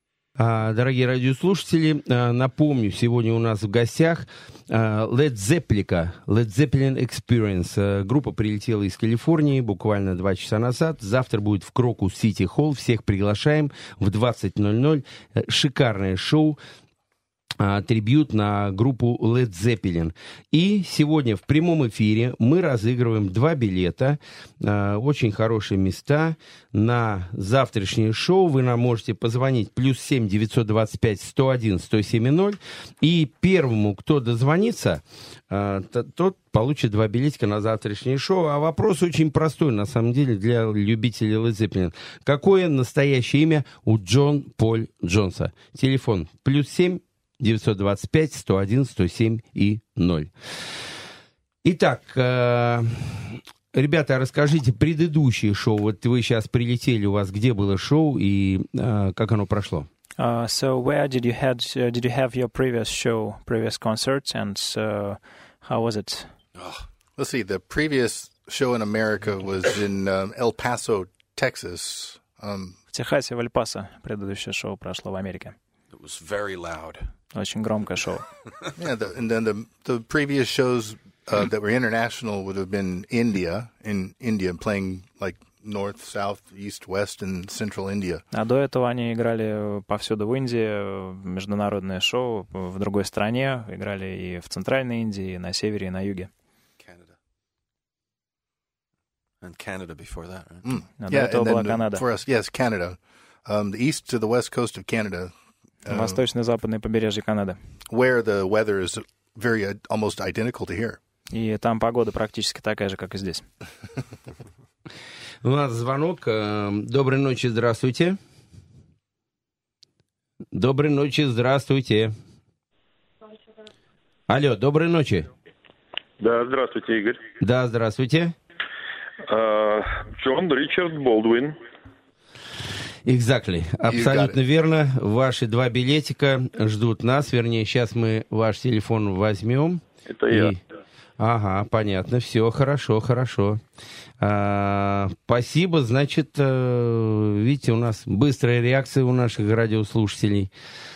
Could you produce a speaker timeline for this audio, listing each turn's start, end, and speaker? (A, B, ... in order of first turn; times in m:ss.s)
0:00.4-0:16.6 A
0:17.6-0:50.3 A
0:51.6-0:59.9 A
1:00.2-1:06.3 B
1:06.6-1:06.9 C
1:07.2-1:12.8 D
1:12.9-1:15.6 B
1:15.9-1:17.1 C
1:17.3-1:18.3 B
1:18.8-1:28.2 D
1:28.3-1:36.3 B
1:36.8-1:37.2 C
1:39.4-1:40.7 C
1:40.6-1:45.3 D
1:41.0-1:42.0 B
1:45.9-1:46.2 D
1:45.9-1:47.6 B
1:47.9-1:51.0 D
1:51.3-1:53.5 B
1:55.4-1:58.2 A
2:00.5-2:02.1 A
2:04.3-2:05.3 A
2:06.2-2:07.2 E
2:07.4-2:08.4 A
2:09.3-2:11.6 E
2:13.0-2:20.6 A
2:13.9-2:14.4 D
2:20.1-2:20.5 E
2:21.2-2:23.6 A
2:24.2-2:30.5 A